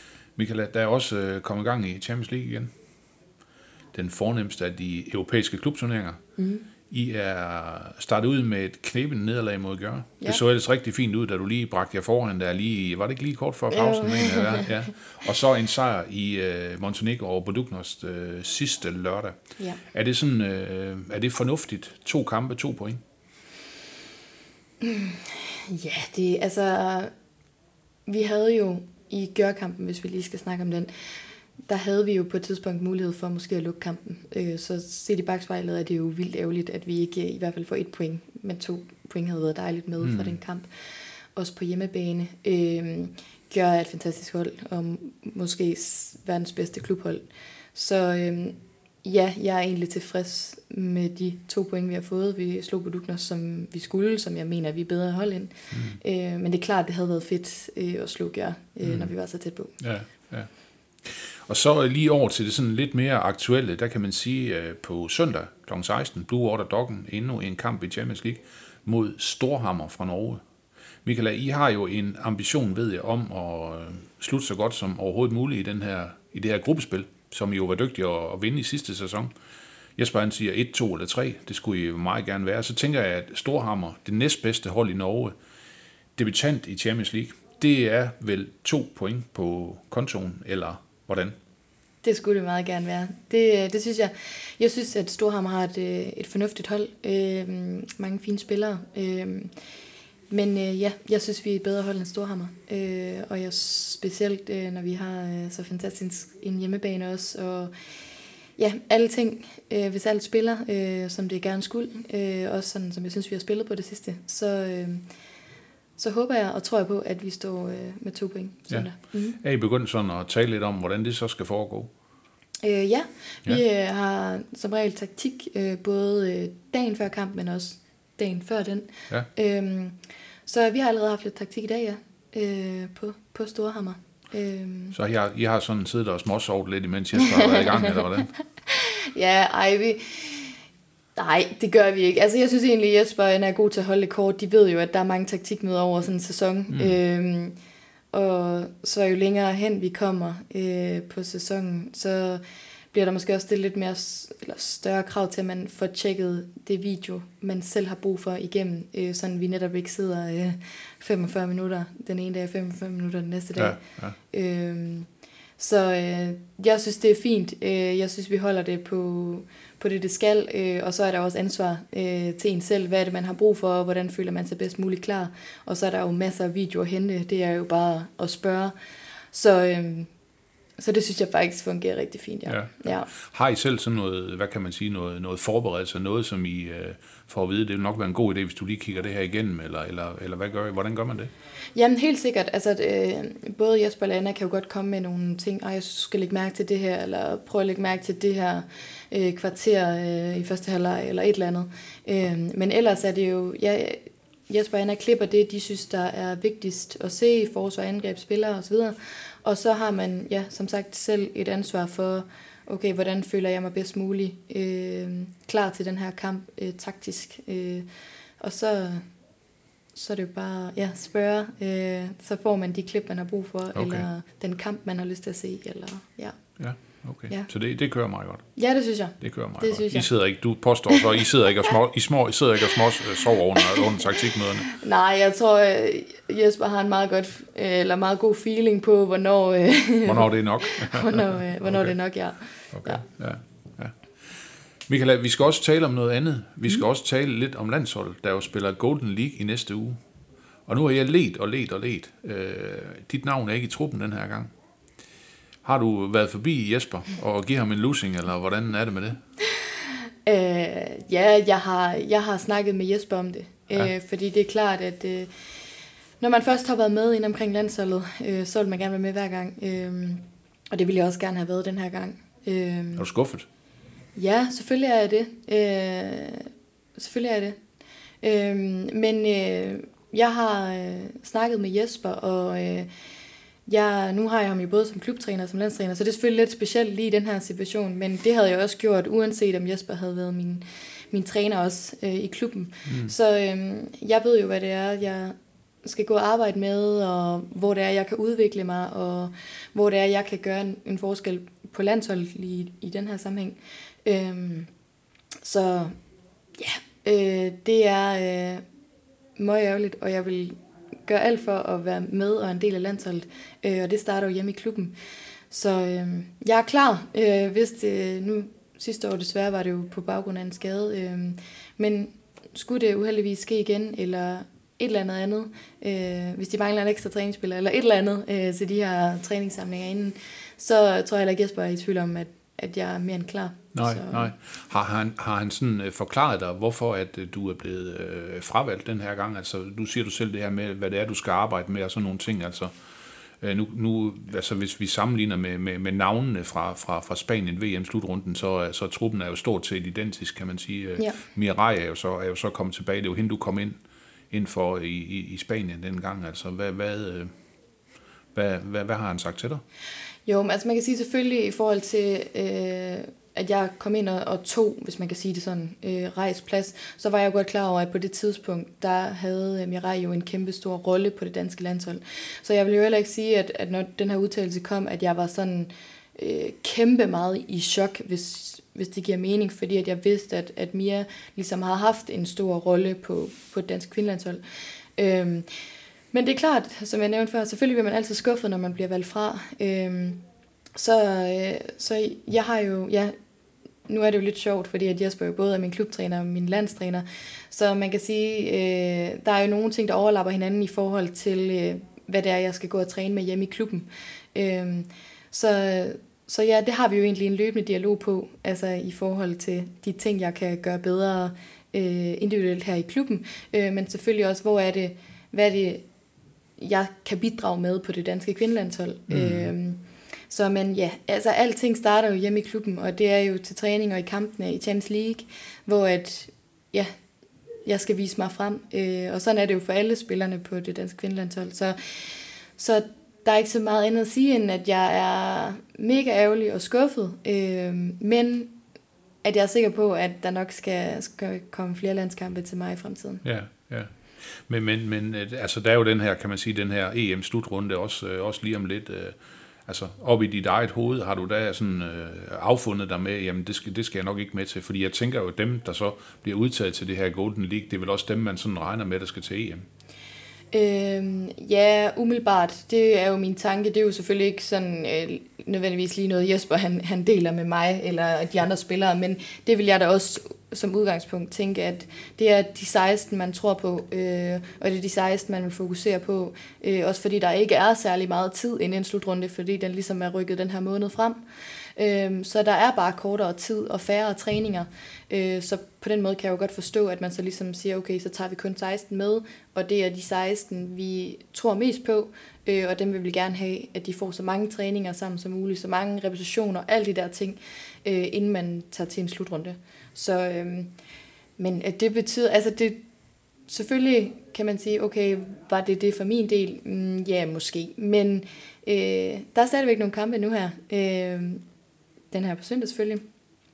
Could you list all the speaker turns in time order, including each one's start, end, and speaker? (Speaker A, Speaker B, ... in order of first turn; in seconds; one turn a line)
Speaker A: 0.4-2.7
Speaker A: 3.9-6.2
Speaker B: 6.4-6.7
Speaker A: 6.9-19.4
Speaker B: 13.7-14.7
Speaker A: 19.9-23.0
Speaker B: 24.8-27.1
Speaker B: 28.1-30.9
Speaker B: 31.7-40.7
Speaker A: 40.0-40.4
Speaker B: 41.4-47.2
Speaker B: 47.8-59.8
Speaker A: 55.7-56.0
Speaker A: 58.8-59.1
Speaker A: 59.8-60.5
Speaker A: 61.0-70.4
Speaker A: 71.0-79.3
Speaker A: 80.0-85.3
Speaker A: 86.2-91.3
Speaker B: 92.0-99.5
Speaker B: 100.3-107.7
Speaker B: 108.6-115.0
Speaker B: 116.0-119.4
Speaker A: 118.7-121.9
Speaker B: 122.6-135.0
Speaker A: 134.9-138.3
Speaker B: 137.2-138.0
Speaker B: 138.7-140.6
Speaker B: 141.2-147.6
Speaker A: 146.7-147.0
Speaker B: 148.1-178.7
Speaker A: 163.6-164.2
Speaker B: 179.3-180.1
Speaker B: 180.8-183.1
Speaker A: 182.5-191.3
Speaker B: 191.8-217.9
Speaker B: 218.4-219.1
Speaker B: 219.9-226.4
Speaker A: 223.8-224.0
Speaker A: 226.6-228.5
Speaker B: 228.6-230.1
Speaker A: 229.2-234.7
Speaker B: 234.7-243.0
Speaker A: 240.1-241.9
Speaker A: 242.7-250.0
Speaker A: 250.7-254.5
Speaker A: 255.6-259.2
Speaker B: 259.6-265.3
Speaker B: 266.2-273.1
Speaker A: 273.0-273.5
Speaker B: 274.1-277.6
Speaker B: 278.2-282.9
Speaker B: 283.7-304.7
Speaker A: 292.9-293.1
Speaker B: 305.4-305.9
Speaker B: 306.6-308.6
Speaker B: 309.4-314.9
Speaker B: 315.5-334.3
Speaker A: 333.8-342.7
Speaker A: 343.4-353.8
Speaker A: 354.3-357.3
Speaker A: 358.3-359.6
Speaker B: 360.3-384.4
Speaker B: 385.0-385.5
Speaker B: 386.1-390.2
Speaker B: 390.8-393.1
Speaker B: 393.9-415.9
Speaker B: 416.6-426.9
Speaker A: 419.1-419.5
Speaker B: 427.6-438.6
Speaker B: 439.2-443.2
Speaker A: 443.2-459.7
Speaker B: 460.5-481.2
Speaker B: 481.8-500.7
Speaker B: 501.4-502.8
Speaker B: 503.5-511.4
Speaker B: 512.1-513.1